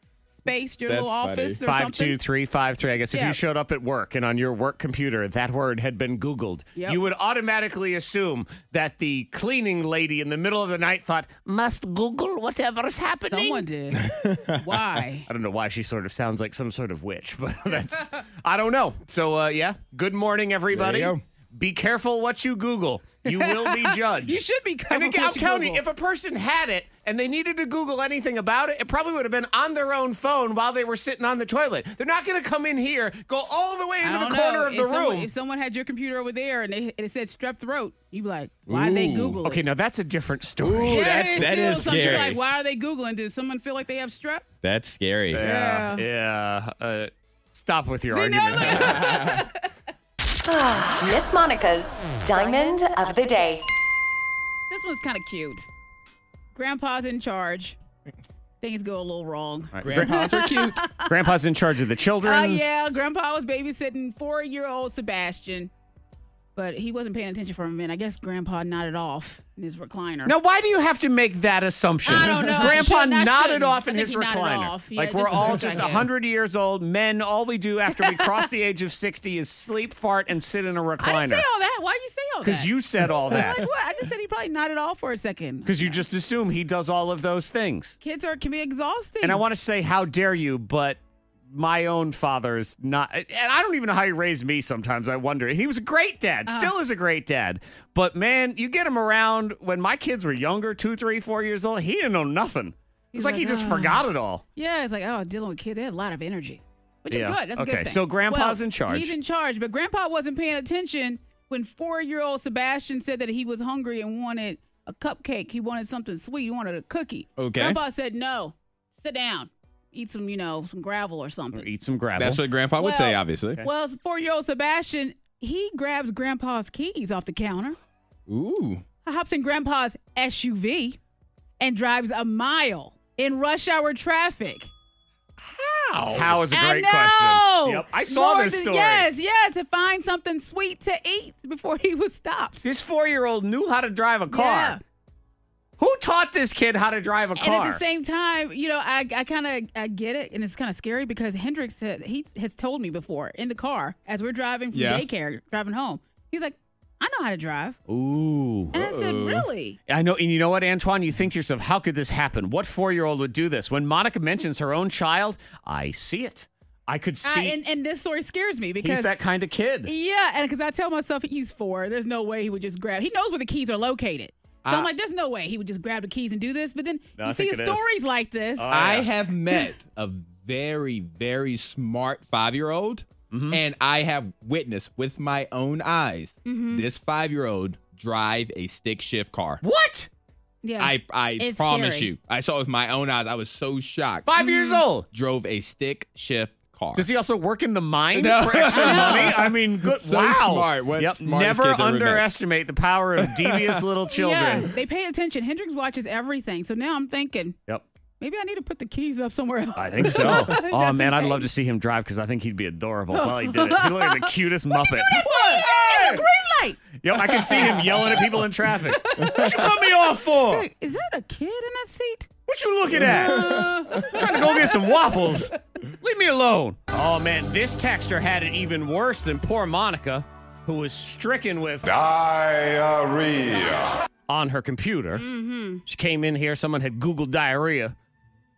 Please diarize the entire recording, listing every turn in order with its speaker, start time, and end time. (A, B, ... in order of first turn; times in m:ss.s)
0:00.4-0:02.2 A
0:00.8-0:01.6 B
0:01.6-0:13.6 C
0:03.1-0:03.4 A
0:13.3-0:15.3 A
0:13.9-0:14.7 B
0:15.3-0:35.3 C
0:20.7-0:21.2 B
0:23.3-0:25.8 A
0:34.0-0:39.6 A
0:38.7-0:39.4 B
0:39.4-0:41.4 C
0:40.6-0:42.4 B
0:40.9-0:44.4 A
0:44.6-0:45.4 B
0:45.3-0:49.1 C
0:45.4-0:46.0 A
0:48.1-0:49.7 A
0:48.5-0:49.5 B
0:50.4-0:53.6 D
0:54.7-0:55.7 A
0:56.5-0:57.8 A
0:58.6-1:01.3 A
0:59.7-1:00.1 C
0:59.8-1:00.8 B
1:01.1-1:02.6 C
1:02.2-1:05.7 A
1:06.6-1:10.3 A
1:10.2-1:21.4 C
1:12.0-1:16.1 A
1:15.3-1:15.7 B
1:17.9-1:18.4 A
1:21.0-1:26.0 A
1:22.4-1:23.6 C
1:25.6-1:27.9 C
1:28.0-1:29.4 A
1:29.2-1:31.0 C
1:31.5-1:44.4 C
1:36.5-1:36.7 A
1:43.1-1:44.0 A
1:44.6-2:01.7 A
1:47.1-1:49.1 C
1:57.4-1:57.8 B
2:01.5-2:02.4 C
2:02.2-2:03.6 B
2:02.8-2:07.8 A
2:08.3-2:08.8 B
2:09.0-2:11.0 A
2:11.6-2:14.7 A
2:15.4-2:16.4 B
2:16.1-2:19.1 C
2:16.5-2:22.6 A
2:22.6-2:24.8 C
2:24.3-2:24.8 A
2:25.8-2:27.8 C
2:27.4-2:37.8 A
2:34.7-2:35.0 B
2:37.9-2:38.8 C
2:38.7-2:39.8 A
2:38.8-2:39.5 B
2:39.9-2:47.6 C
2:47.2-2:49.2 A
2:48.8-2:49.9 C
2:49.8-2:58.7 A
2:54.6-2:54.9 B
2:57.2-2:57.8 C
2:58.6-2:59.1 C
2:58.7-3:09.6 B
3:03.3-3:03.6 C
3:06.4-3:06.8 A
3:09.6-3:10.1 C
3:10.6-3:12.1 A
3:10.8-3:14.3 B
3:14.2-3:15.0 C
3:14.4-3:14.8 A
3:15.1-3:17.1 B
3:16.9-3:24.7 C
3:18.1-3:22.3 B
3:18.7-3:19.4 A
3:23.2-3:23.8 B
3:24.1-3:27.6 A
3:28.2-3:31.5 A
3:29.7-3:36.2 C
3:33.1-3:37.8 A
3:37.0-3:40.6 C
3:39.0-3:39.8 A
3:40.5-3:42.3 A
3:42.5-3:45.5 C
3:43.0-3:45.4 A
3:43.0-3:44.3 B
3:46.0-3:51.9 C
3:51.8-3:53.9 E
3:54.3-3:55.2 C
3:55.2-3:55.8 A
3:55.8-3:57.9 C